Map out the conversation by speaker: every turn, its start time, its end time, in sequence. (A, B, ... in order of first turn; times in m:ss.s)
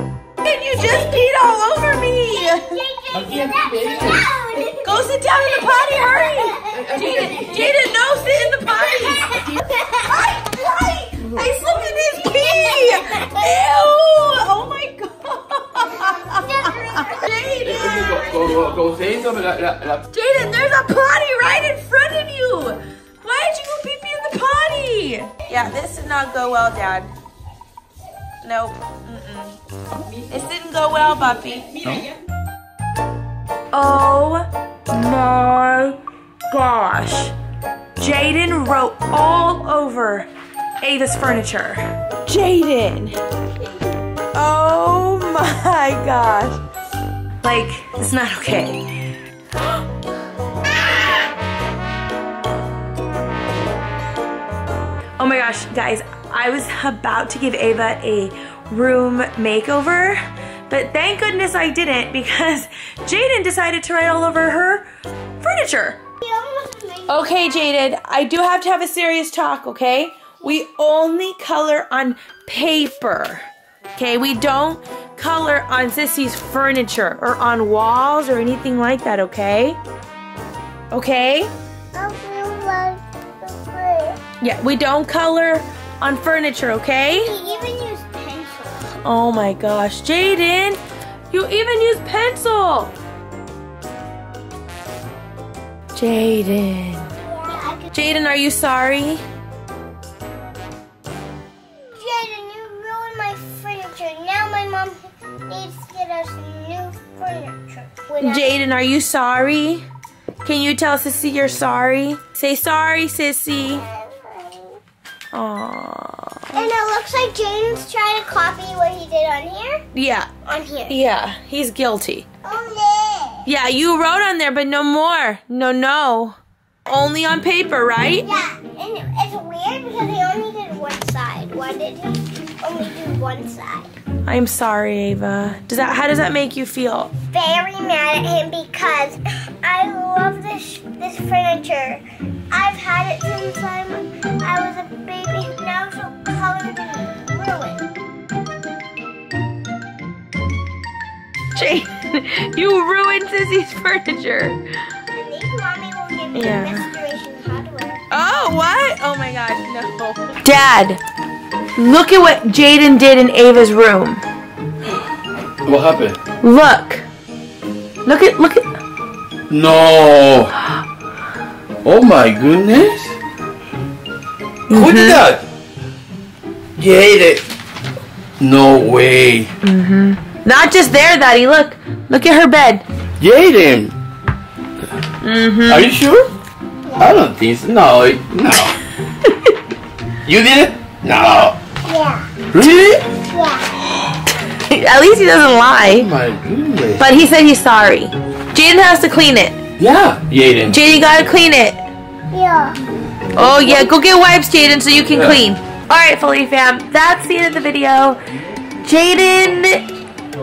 0:00.4-0:02.8 A
0:00.9-0:01.2 B
0:02.3-0:07.3 B
0:03.1-0:04.2 C
0:04.6-0:09.6 A
0:08.8-0:11.4 B
0:11.2-0:18.5 A
0:12.3-0:13.3 B
0:15.9-0:17.4 B
0:17.6-0:20.0 C
0:20.1-0:27.1 A
0:28.4-0:29.6 A
0:30.3-0:31.7 A
0:33.7-0:36.0 A
0:36.5-0:37.3 A
0:38.0-0:40.3 A
0:40.8-0:43.2 A
0:44.3-0:46.6 A
0:47.4-0:48.9 A
0:55.2-1:04.9 A
1:05.4-1:06.0 A
1:06.2-1:07.4 B
1:07.1-1:19.8 A
1:20.9-1:21.5 A
1:21.9-1:24.2 B
1:24.4-1:27.3 A
1:27.1-1:28.9 B
1:29.0-1:30.8 A
1:31.3-1:32.9 A
1:35.9-1:37.1 A
1:37.2-1:37.9 B
1:37.9-1:39.2 A
1:42.0-1:48.5 B
1:48.2-1:49.8 A
1:50.4-1:53.8 A
1:53.7-1:54.8 B
1:55.3-1:56.6 A
1:56.5-1:59.8 B
1:59.9-2:00.3 A
2:00.4-2:01.0 B
2:00.9-2:02.2 A
2:02.4-2:03.5 B
2:03.4-2:08.4 A
2:08.2-2:13.9 B
2:14.2-2:17.1 A
2:17.3-2:27.8 B
2:31.5-2:34.6 A
2:35.1-2:38.0 B
2:36.3-2:36.9 A
2:38.1-2:41.0 A
2:41.8-2:44.2 A
2:45.6-2:46.2 C
2:46.4-2:47.0 A
2:48.0-2:48.6 A
2:49.5-2:50.5 C
2:51.8-2:53.1 C
2:54.7-2:55.2 A
2:54.7-2:55.4 C
2:56.8-2:57.5 C
2:58.4-2:59.5 C
2:59.6-3:02.8 A
3:03.2-3:03.9 C
3:05.2-3:05.9 A
3:05.6-3:06.3 C
3:07.0-3:08.8 C
3:09.2-3:09.5 A
3:10.2-3:11.6 C
3:11.8-3:12.3 B
3:12.5-3:13.1 C
3:13.2-3:13.7 B
3:14.4-3:16.1 A
3:15.8-3:17.0 C
3:17.0-3:19.6 A
3:19.8-3:20.8 C
3:20.7-3:21.8 A
3:22.3-3:22.8 B
3:23.3-3:28.2 A
3:25.1-3:25.4 C
3:28.8-3:29.9 A